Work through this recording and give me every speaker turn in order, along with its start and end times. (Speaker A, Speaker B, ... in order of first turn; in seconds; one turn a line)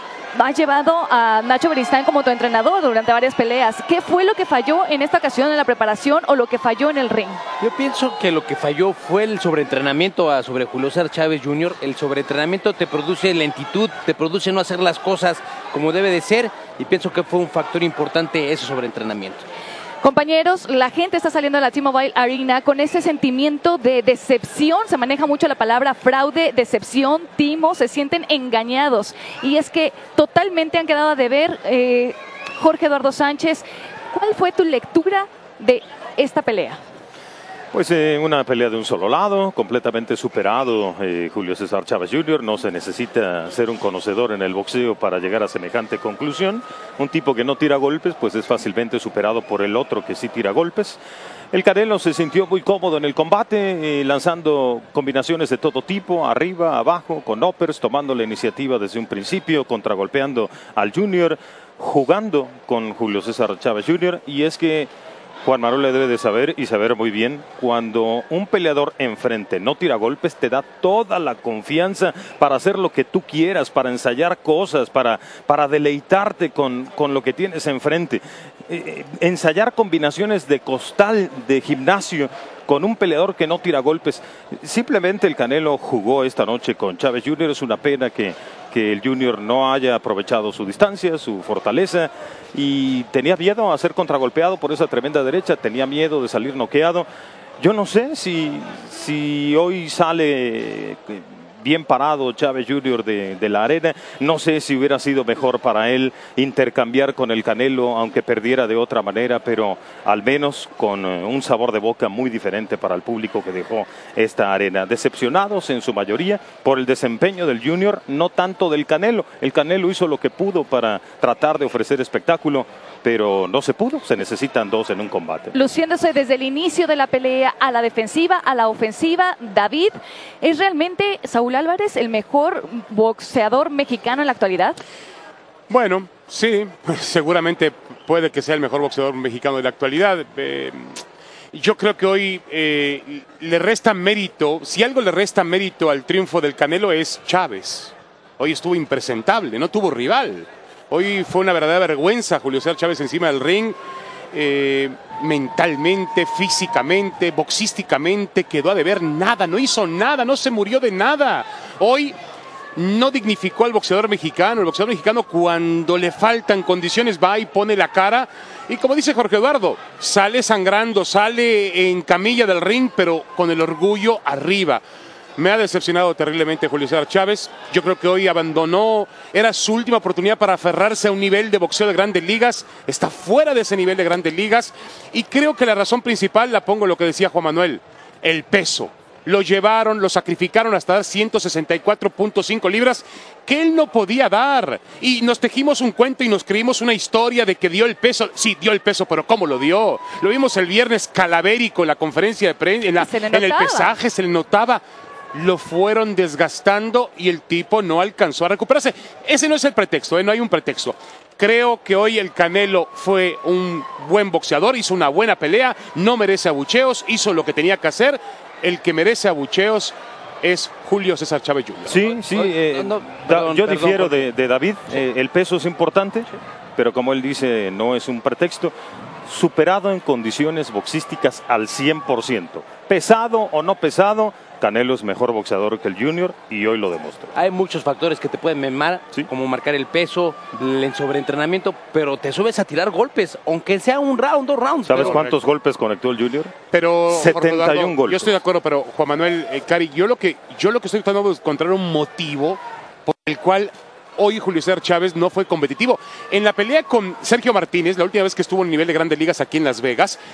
Speaker A: 0.3-7.4
Speaker B: 7.6-19.4
Speaker A: 20.0-36.8
Speaker C: 37.7-51.0
Speaker C: 51.5-64.9
Speaker C: 65.4-97.1
Speaker C: 97.6-125.5
Speaker A: 125.5-134.8
Speaker D: 135.7-141.0
Speaker D: 141.5-153.8
Speaker D: 154.3-162.2
Speaker D: 162.8-174.8
Speaker D: 175.4-204.8
Speaker A: 203.0-203.9
Speaker D: 205.3-222.1
Speaker C: 221.9-228.7
Speaker B: 222.1-224.3
Speaker C: 229.3-237.3
Speaker B: 237.3-245.3
Speaker C: 244.8-246.6
Speaker D: 245.0-245.4
Speaker D: 246.7-260.2
Speaker C: 247.1-248.3